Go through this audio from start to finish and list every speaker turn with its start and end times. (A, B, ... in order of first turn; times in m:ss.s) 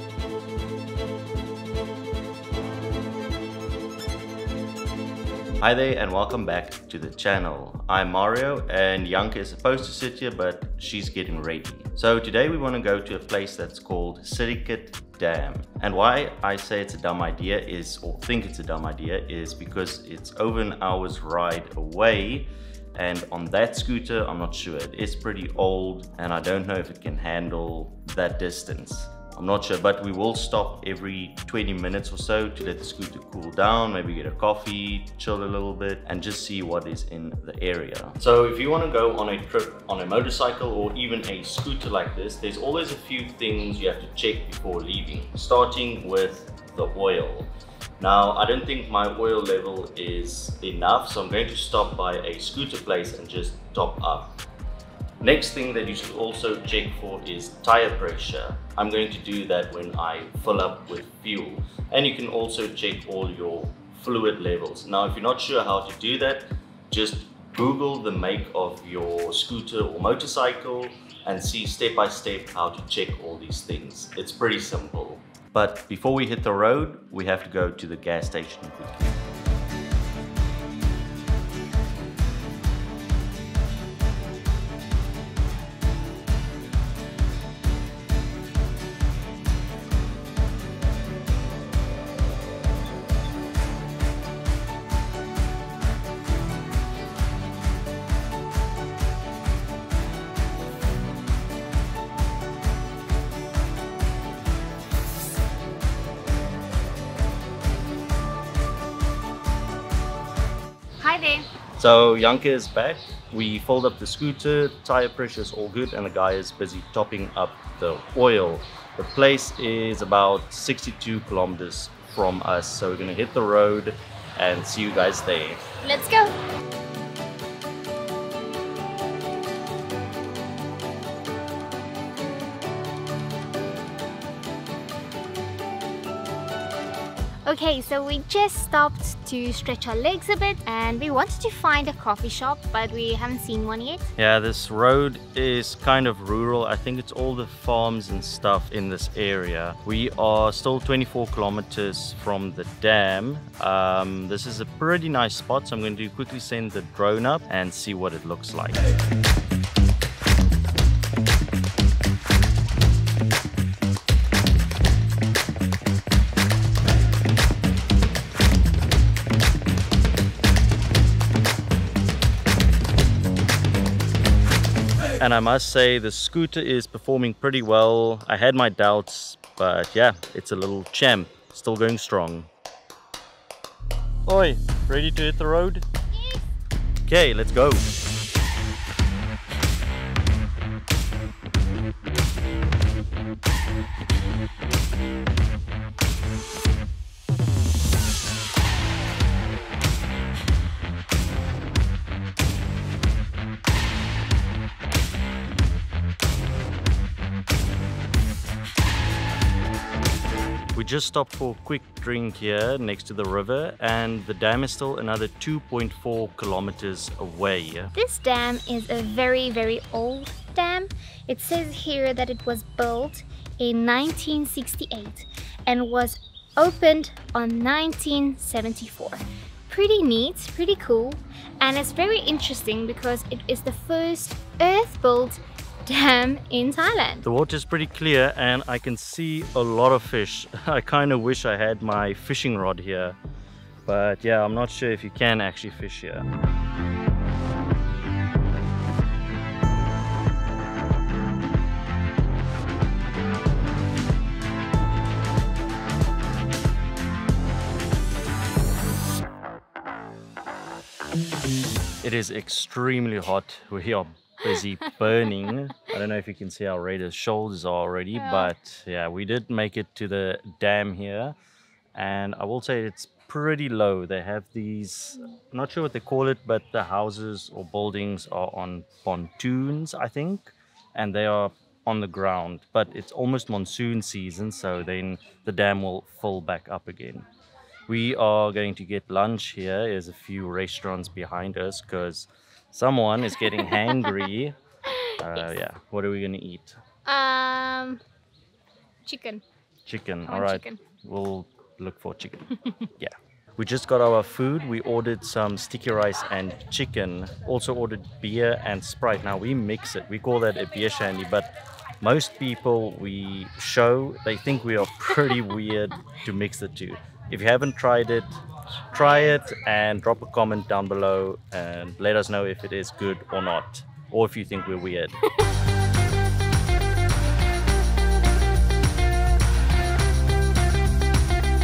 0:05.6-0:54.4 A
0:55.2-1:19.2 A
1:51.0-1:51.5 B
1:51.8-2:05.6 A
2:05.8-2:06.3 B
2:17.4-2:24.1 B
2:24.2-2:38.8 A
2:55.2-3:02.5 A
3:04.2-3:05.8 A
3:07.0-3:07.9 A
3:30.7-3:37.9 A
3:37.9-3:57.2 B
3:57.2-4:03.2 A
4:03.8-4:06.3 A
4:22.0-4:31.3 A
4:28.2-4:28.5 B
4:31.9-4:47.2 A
4:47.9-4:54.6 A
4:53.6-4:54.1 B
4:55.0-4:55.5 B
4:55.2-4:56.8 A
4:57.0-4:58.0 B
4:59.0-4:59.4 B
4:59.8-5:11.5 A
5:00.3-5:00.8 B
5:12.0-5:18.4 A
5:18.9-5:25.1 A